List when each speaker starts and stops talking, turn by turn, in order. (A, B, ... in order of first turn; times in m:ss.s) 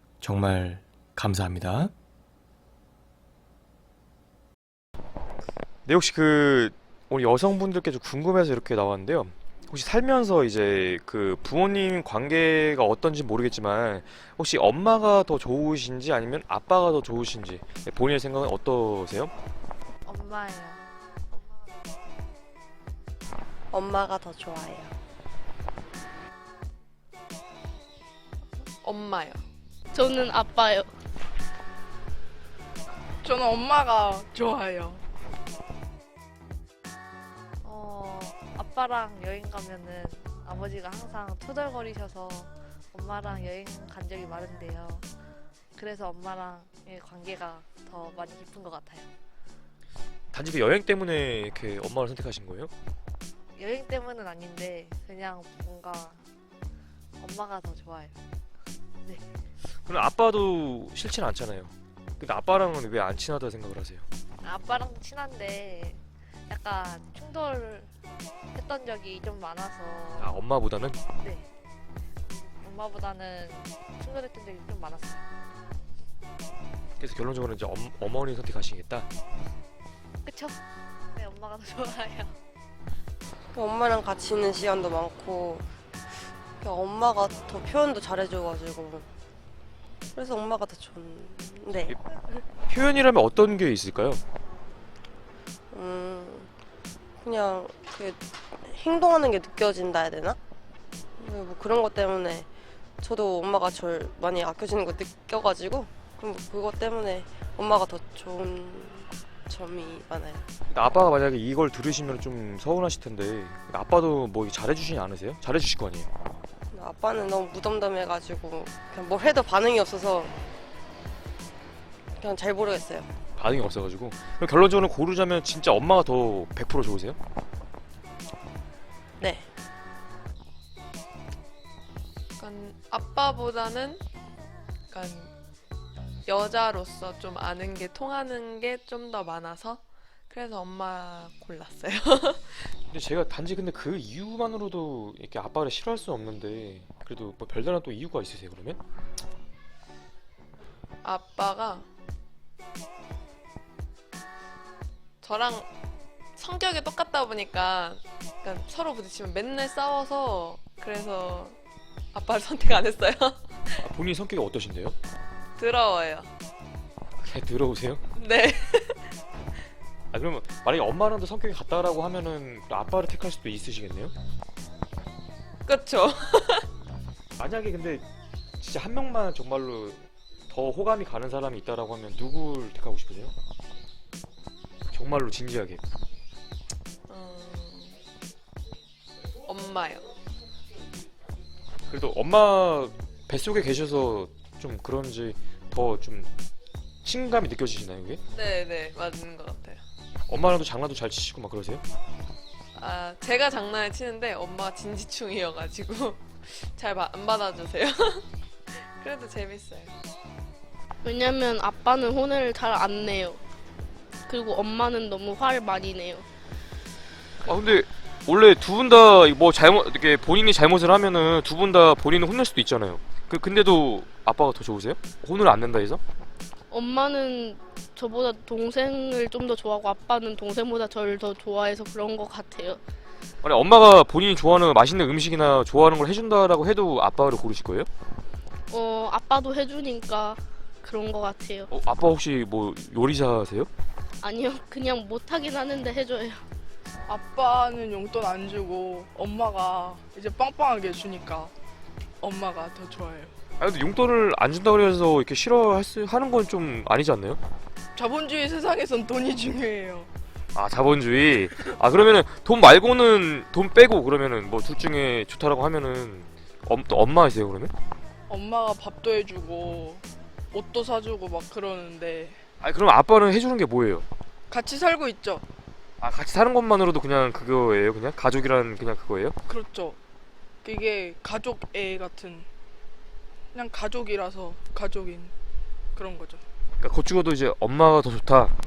0:00.2-0:01.9 A
0:05.8-0:19.3 A
0:20.0-0:21.7 B
0:23.7-0:24.9 C
0:28.8-0:29.4 D
0:29.9-0:30.9 E
0:33.2-0:35.0 F
0:37.6-0:45.1 B
0:45.8-0:49.1 B
0:50.3-0:52.7 A
0:53.6-0:56.2 B
0:57.2-0:58.2 B
0:59.8-1:04.0 A
1:04.4-1:07.9 B
1:08.5-1:10.5 B
1:10.2-1:11.0 A
1:11.1-1:11.5 B
1:12.3-1:15.2 B
1:17.0-1:19.1 A
1:20.2-1:20.6 B
1:21.1-1:22.4 B
1:23.5-1:25.6 C
1:26.6-1:29.1 C
1:30.1-1:32.0 C
1:32.7-1:34.2 A
1:35.7-1:36.5 C
1:37.2-1:40.4 C
1:41.2-1:42.5 C
1:43.0-1:50.4 C
1:50.7-1:56.1 A
1:56.7-2:00.3 C
2:02.2-2:03.1 C
2:03.4-2:07.2 A
2:09.2-2:09.5 C
2:12.4-2:14.0 D
2:14.9-2:15.3 D
2:16.3-2:22.7 D
2:22.9-2:28.8 A
2:31.0-2:31.9 D
2:35.2-2:35.7 D
2:36.4-2:41.6 D
2:42.1-2:43.8 D
2:43.8-2:45.0 A
2:45.6-2:46.3 D
2:47.2-2:48.0 A
2:48.1-2:49.1 D
2:50.1-2:54.1 A
2:55.6-2:56.7 D
2:57.4-2:58.0 A
2:58.6-3:03.3 A
3:04.9-3:05.8 A
3:07.1-3:08.0 D
3:09.4-3:10.1 D
3:11.9-3:16.3 A
3:17.0-3:18.2 A
3:18.3-3:19.8 D
3:20.3-3:21.8 A
3:22.7-3:29.9 D
3:31.0-3:33.4 E
3:34.3-3:36.2 E
3:37.4-3:37.7 D
3:37.4-3:46.0 A
3:46.7-3:52.8 E
3:53.4-3:57.9 A
3:58.7-4:01.7 E
4:01.7-4:03.7 A
4:04.2-4:06.4 E
4:07.1-4:11.5 F
4:12.2-4:13.3 F
4:13.6-4:17.4 A
4:18.0-4:20.1 F
4:20.5-4:27.7 A
4:28.3-4:30.0 F
4:30.5-4:32.4 F
4:32.6-4:34.0 A
4:34.5-4:35.4 F
4:36.0-4:39.3 A
4:39.5-4:40.0 F
4:40.6-4:42.4 F
4:43.5-4:45.3 F
4:45.9-4:46.4 F
4:46.8-4:48.5 A